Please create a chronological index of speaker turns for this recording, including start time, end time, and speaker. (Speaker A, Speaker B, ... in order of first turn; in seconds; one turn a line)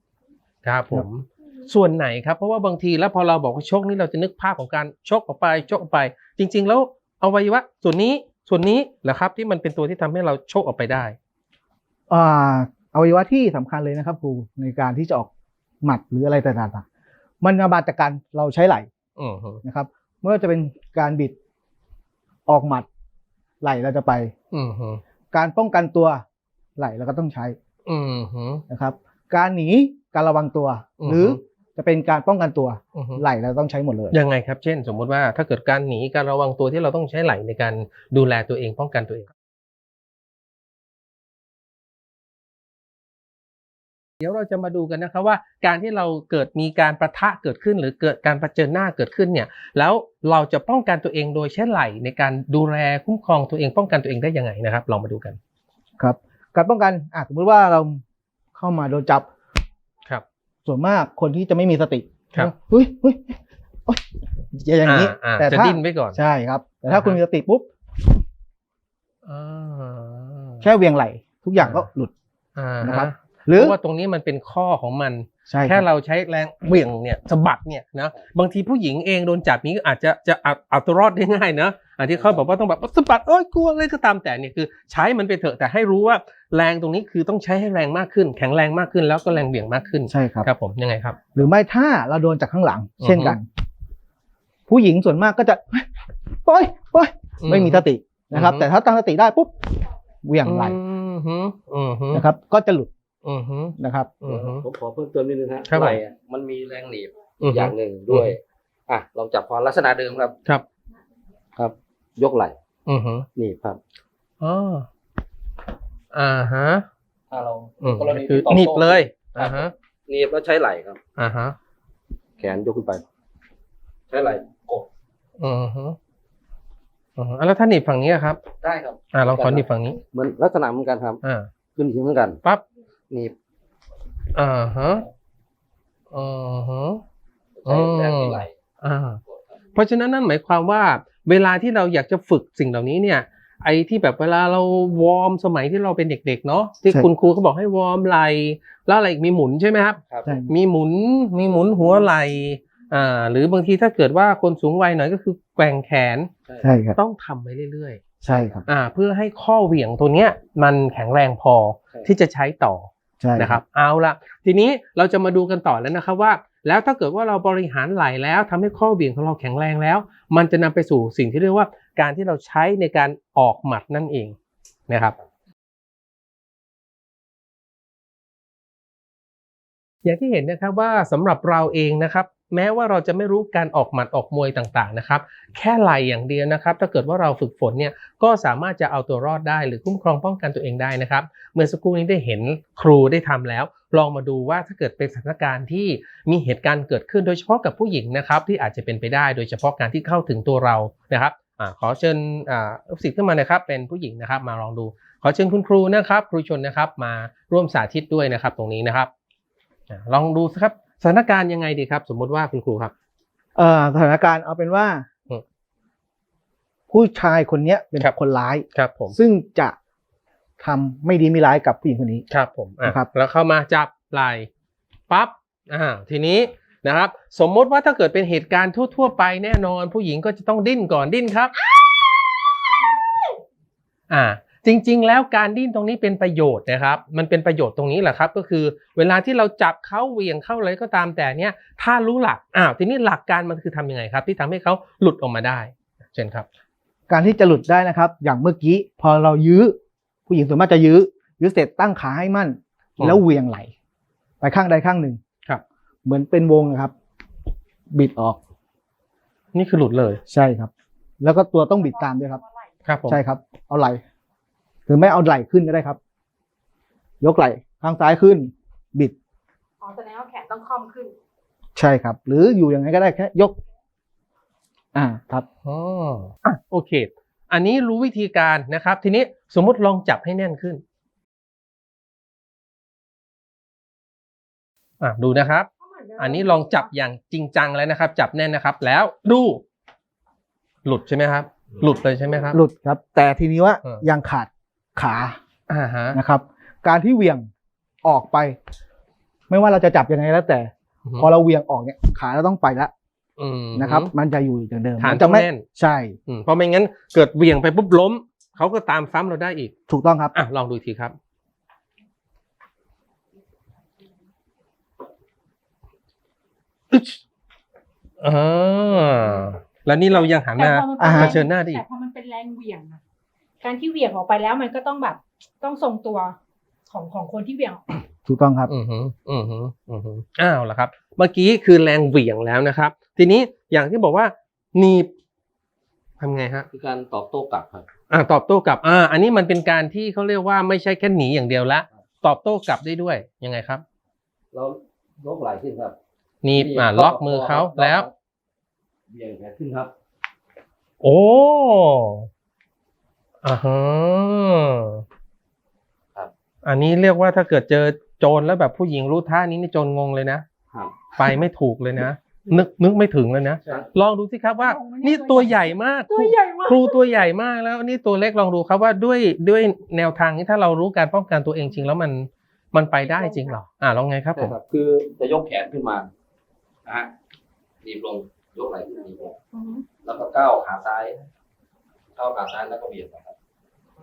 Speaker A: 0.6-11.2
Speaker B: 12.1-15.3
Speaker B: 15.8-16.9
Speaker B: 17.4-18.9
Speaker A: 19.2-19.6
Speaker B: 19.6-21.4
Speaker B: 22.5-22.9
Speaker B: 23.6-24.3
Speaker A: 24.5-25.0
Speaker B: 25.3-26.2
Speaker B: 26.8-27.6
Speaker A: 27.9-28.6
Speaker B: 28.7-34.2
Speaker A: 31.0-31.4
Speaker A: 33.0-33.2
Speaker A: 34.1-39.3
Speaker A: 44.2-55.4
Speaker B: 56.0-58.0
Speaker B: 58.5-59.3
Speaker B: 60.7-67.7
Speaker A: 64.8-66.2
Speaker A: 66.9-67.2
Speaker A: 69.2-70.6
Speaker B: 70.6-72.1
Speaker A: 71.6-71.9
Speaker A: 72.6-91.2
Speaker B: 72.8-73.8
Speaker B: 75.5-75.8
Speaker B: 90.1-90.5
Speaker B: 91.3-93.5
Speaker A: 93.0-93.4
Speaker B: 94.7-95.9
Speaker B: 96.4-99.5
Speaker A: 97.4-98.7
Speaker B: 100.2-100.8
Speaker A: 100.5-102.3
Speaker B: 102.1-102.9
Speaker A: 103.2-104.7
Speaker B: 103.8-104.1
Speaker C: 104.3-110.4
Speaker A: 105.7-106.0
Speaker A: 107.4-108.4
Speaker C: 111.6-112.6
Speaker A: 112.9-113.3
Speaker C: 113.4-113.8
Speaker A: 114.4-114.9
Speaker A: 116.1-116.9
Speaker C: 117.3-121.0
Speaker A: 117.8-119.7
Speaker A: 121.2-121.6
Speaker C: 122.4-123.0
Speaker C: 124.1-124.9
Speaker A: 125.4-126.0
Speaker A: 127.2-128.4
Speaker C: 128.6-131.2
Speaker A: 129.1-130.0
Speaker A: 131.2-131.5
Speaker C: 131.8-132.4
Speaker A: 134.3-135.1
Speaker A: 136.1-137.0
Speaker C: 137.6-138.6
Speaker A: 137.7-139.2
Speaker A: 139.8-156.3
Speaker B: 150.2-150.5
Speaker C: 156.5-156.7
Speaker B: 156.6-157.0
Speaker A: 156.9-158.0
Speaker B: 158.2-158.7
Speaker A: 158.7-174.4
Speaker B: 163.2-163.6
Speaker A: 174.9-175.2
Speaker A: 180.1-209.1
Speaker A: 209.9-212.9
Speaker B: 213.6-215.1
Speaker B: 216.9-219.8
Speaker A: 218.7-219.2
Speaker B: 220.6-222.2
Speaker A: 222.3-224.5
Speaker B: 222.8-223.1
Speaker A: 225.1-231.5
Speaker A: 234.1-246.5
Speaker B: 247.1-249.8
Speaker B: 250.3-253.7
Speaker B: 254.4-255.2
Speaker B: 256.1-256.9
Speaker B: 257.9-258.4
Speaker A: 259.5-260.2
Speaker B: 260.3-262.4
Speaker A: 262.9-263.2
Speaker B: 263.1-264.0
Speaker B: 264.9-266.0
Speaker B: 267.2-269.1
Speaker D: 269.8-271.1
Speaker B: 271.8-273.6
Speaker B: 274.9-275.5
Speaker A: 275.6-280.8
Speaker A: 285.0-289.6
Speaker D: 285.8-286.9
Speaker A: 290.9-292.6
Speaker B: 292.5-295.4
Speaker A: 295.7-296.2
Speaker B: 296.1-297.5
Speaker B: 298.0-298.6
Speaker B: 299.5-302.9
Speaker A: 303.4-304.1
Speaker B: 303.8-306.2
Speaker A: 305.0-305.6
Speaker A: 306.3-309.7
Speaker B: 309.9-310.4
Speaker A: 310.3-311.2
Speaker A: 316.9-317.2
Speaker A: 318.2-321.8
Speaker D: 320.6-323.0
Speaker B: 321.0-321.4
Speaker D: 323.6-326.4
Speaker D: 326.9-328.0
Speaker B: 328.3-328.7
Speaker A: 328.7-335.1
Speaker A: 336.2-336.7
Speaker C: 336.7-337.9
Speaker A: 338.1-343.8
Speaker C: 344.5-346.0
Speaker A: 346.4-348.1
Speaker C: 346.5-348.1
Speaker C: 349.1-349.9
Speaker A: 351.0-352.3
Speaker A: 353.4-355.0
Speaker A: 356.6-360.4
Speaker A: 361.1-374.5
Speaker D: 364.6-366.9
Speaker D: 373.1-373.6
Speaker C: 374.4-376.1
Speaker C: 376.9-377.1
Speaker C: 377.8-379.4
Speaker D: 379.5-379.9
Speaker C: 380.0-381.2
Speaker C: 382.2-383.4